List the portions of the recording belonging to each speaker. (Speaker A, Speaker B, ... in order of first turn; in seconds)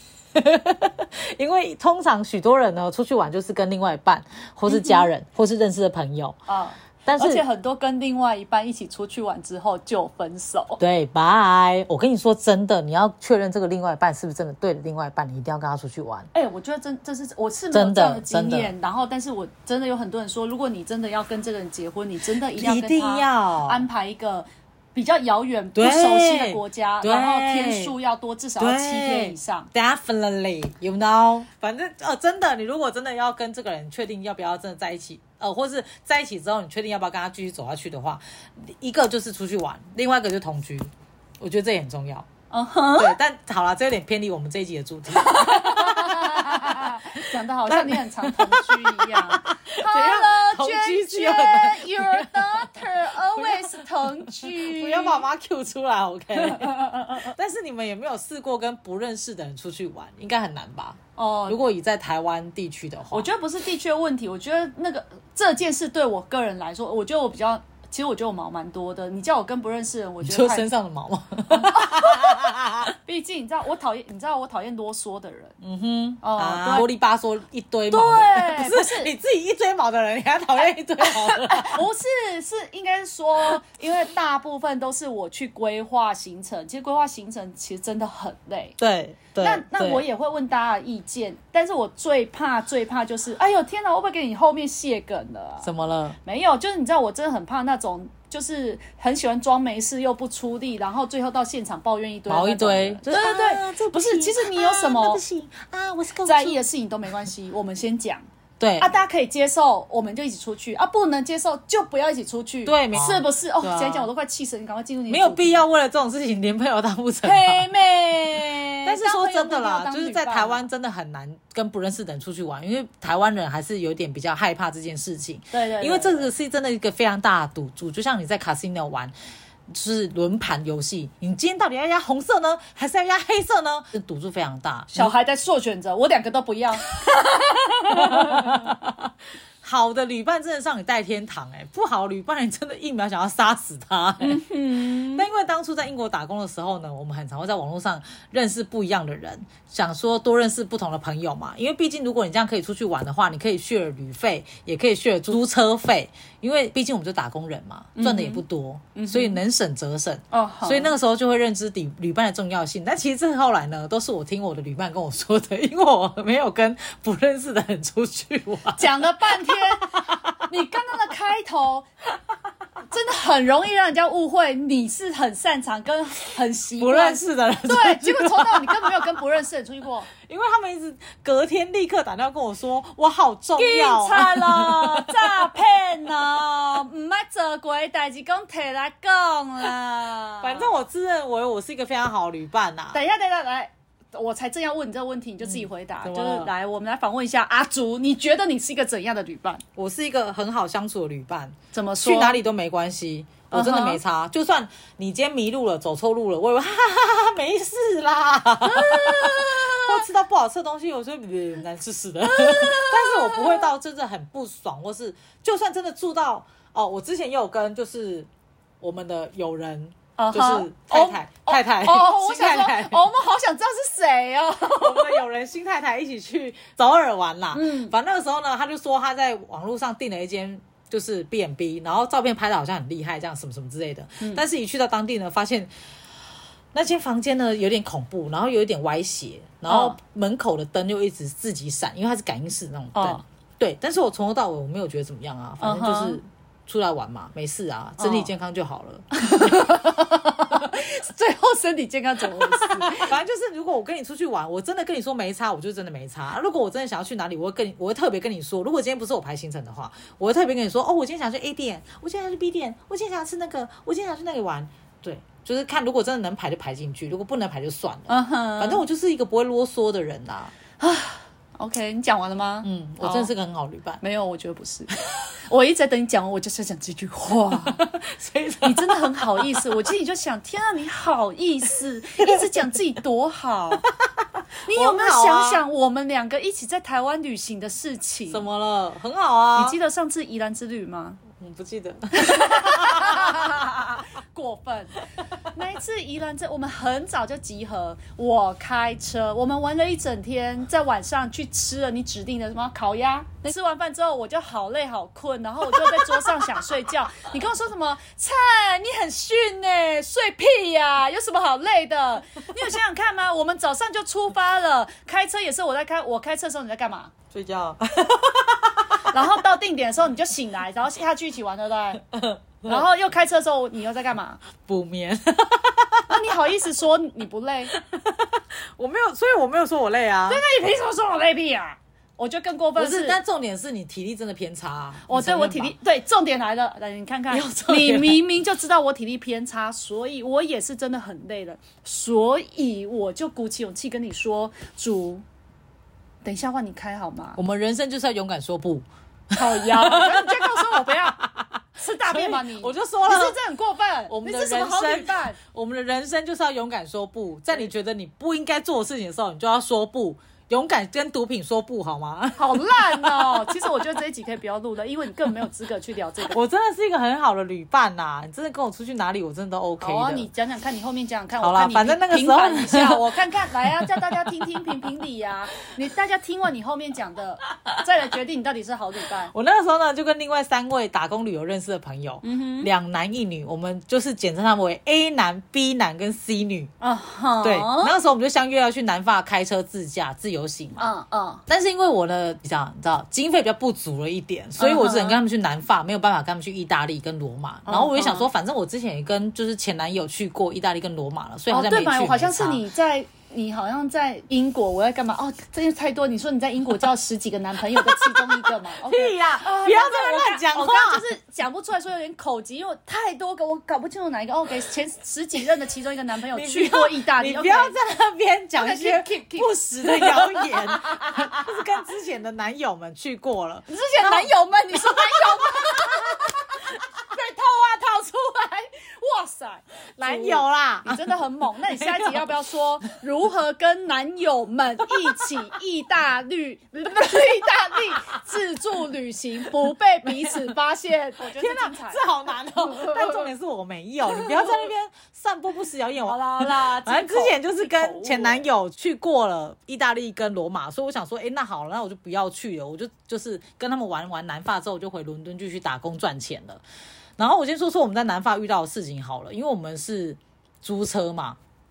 Speaker A: 0.4-6.3, 7.1-7.4, 10.8-16.3, 17.7-18.7, 22.6-23.8, 25.8-27.9, 28.6-42.3, 43.0-63.3, 70.2-72.9, 75.6-81.8, 88.8-90.0, 95.6-96.2, 102.3-106.6, 108.6-108.9, 112.7-114.1, 115.1-117.7, 118.8-129.1, 129.7-135.1, 138.0-138.9, 139.6-170.3, 176.8-178.9, 180.2-185.9, 190.4-193.0, 195.4-196.5, 199.8-218.3, 218.8-223.0, 224.7-235.7, 236.7-249.1, 252.6-270.5, 272.6-274.0, 277.7-279.7, 284.7-285.6, 288.3-289.8, 291.3-293.6, 317.3-319.2, 322.1-322.9, 324.6-326.1, 327.8-330.4, 332.8-335.8, 337.3-338.2, 347.4-348.9, 349.4-353.4, 354.1-363.6, 366.3-370.3, 371.4-374.1, 379.3-386.7, 387.4-390.9, 391.5-402.6, 407.8-411.0, 416.3-424.3, 430.0-431.0, 431.6-432.8, 441.3-456.6, 457.2-461.4
Speaker B: 4.7-5.1, 6.5-10.8, 16.3-29.7, 42.5-43.2, 45.1-55.2, 56.4-57.3, 61.2-61.6, 63.1-70.7, 71.5-72.5, 73.0-75.5, 76.2-76.9, 77.9-79.1, 81.0-88.8, 89.4-95.7, 96.2-105.2, 106.2-108.3, 108.8-115.7, 117.2-120.7, 125.5-126.3, 134.9-138.7, 144.2-145.3, 158.0-158.4, 158.9-159.4, 160.3-160.9, 168.8-171.9, 172.9-180.1, 183.6-190.7, 192.9-199.6, 201.7-202.4, 203.5-204.0, 208.7-210.0, 212.2-213.7, 220.2-225.2, 227.5-227.9, 239.7-240.0, 242.9-243.2, 245.6-246.2, 248.0-248.3, 249.1-253.2, 268.1-268.9, 270.8-273.3, 274.0-277.8, 278.6-283.8, 284.7-288.4, 289.6-291.2, 292.2-295.0, 295.5-317.1, 319.1-322.0, 322.6-324.4, 326.1-327.7, 330.3-333.2, 335.1-345.2, 346.2-347.4, 349.3-351.2, 351.8-355.4, 362.4-366.4, 369.8-379.3, 382.2-382.7, 386.8-388.0, 390.8-391.4, 394.6-395.2, 397.7-398.3, 401.5-417.8, 418.6-421.3, 423.7-443.3, 444.1-444.7, 446.0-448.4